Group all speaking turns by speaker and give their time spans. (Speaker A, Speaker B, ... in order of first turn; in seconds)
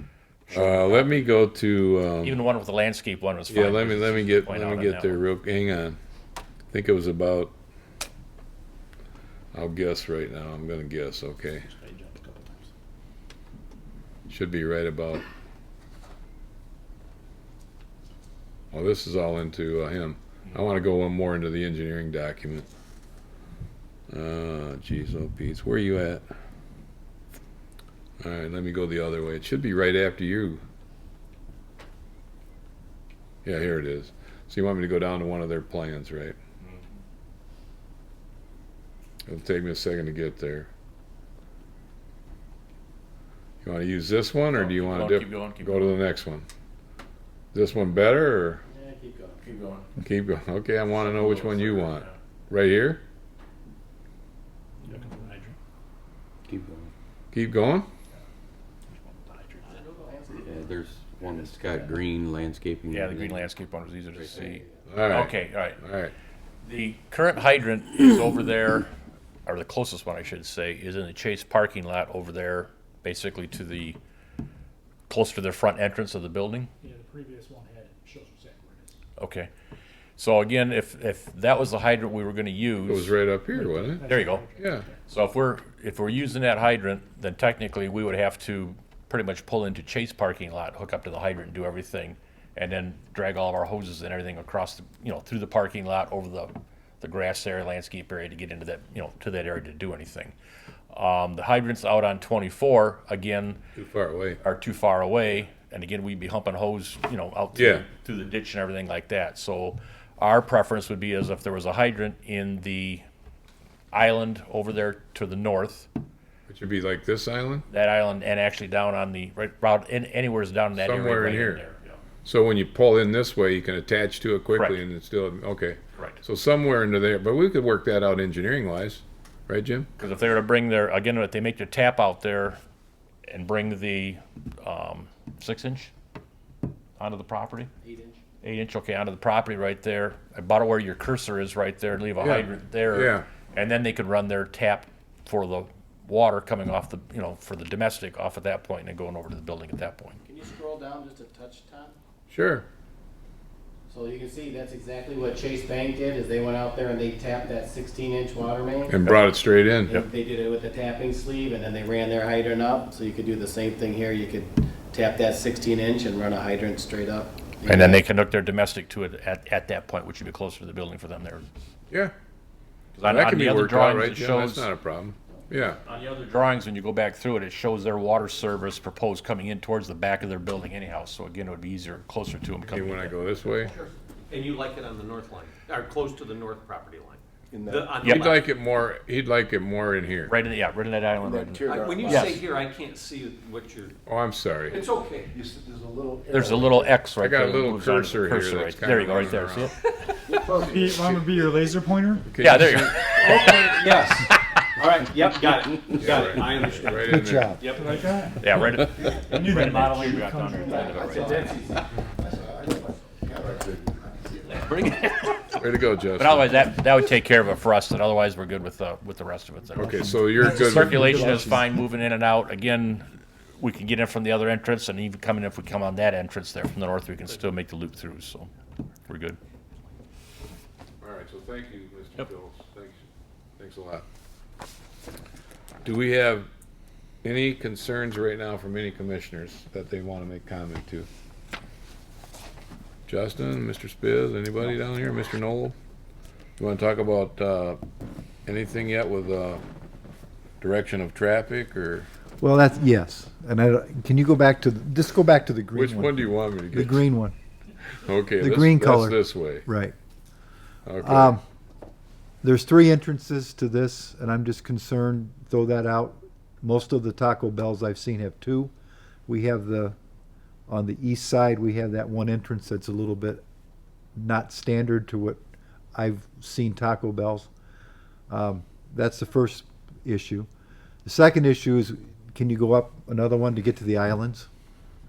Speaker A: 0.5-1.1, 2.2-5.2, 44.5-46.0, 49.4-49.9, 51.1-52.2, 62.9-65.8, 66.6-68.9, 69.5-74.0, 75.1-76.7, 79.2-79.5, 80.2-83.2, 84.0-84.5, 85.1-100.3, 100.9-103.6, 104.4-113.0, 113.9-115.9, 117.7-122.0, 130.0-132.6, 133.3-135.9, 137.0-137.7, 138.4-150.2, 167.7-171.4, 172.9-174.7, 175.8-183.1, 190.3-192.4, 196.3-199.7, 202.4-203.9, 208.4-211.5, 214.5-215.6, 216.2-223.1, 223.6-228.5, 229.1-229.4
Speaker B: 0.5-2.4, 3.5-6.0, 6.7-7.5, 9.5-11.7, 14.3-15.2, 18.7-22.7, 24.1-26.2, 28.2-30.6, 33.5-36.4, 39.3-40.7, 43.6-46.5, 47.5-48.6, 50.0-53.0, 57.3-57.9, 64.9-66.1, 82.9-84.8, 103.8-104.4, 107.6-107.9, 116.5-117.6, 120.8-121.6, 122.2-129.9, 142.2-143.3, 152.3-152.7, 158.9-160.0, 173.1-175.8, 182.7-183.7, 188.0-190.3, 194.1-194.8, 197.2-199.7, 202.3-203.2, 206.0-207.6, 215.6-216.5, 219.8-221.5, 231.0-233.0, 233.6-234.1, 235.8-236.5, 237.2-241.1, 243.1-245.8, 246.6-247.8, 248.5-249.6, 250.6-252.1, 255.8-257.1, 258.0-259.6, 260.9-261.4
Speaker C: 11.8-12.6, 54.8-55.5, 59.3-59.8, 76.8-79.0, 83.6-84.9
Speaker D: 48.7-49.5, 59.7-60.6, 137.8-138.2, 150.3-151.9, 153.9-159.2, 159.9-168.0, 210.7-211.8
Speaker E: 56.5-56.9, 60.3-63.5, 64.2-64.5
Speaker F: 183.8-188.5, 191.7-193.9, 194.7-195.3, 203.2-204.2, 204.8-207.8
Speaker G: 187.5-187.9, 191.3-192.4, 195.3-196.9, 200.4-201.3, 206.9-207.9, 210.8-214.5, 220.2-221.8, 252.4-257.3, 258.4-259.9, 261.0-261.4, 262.4-268.7, 269.3-270.0, 270.7-273.4, 274.2-275.4, 275.9-277.5, 278.3-280.5, 281.1-284.5
Speaker H: 200.5-202.3, 207.8-208.5, 209.3-210.9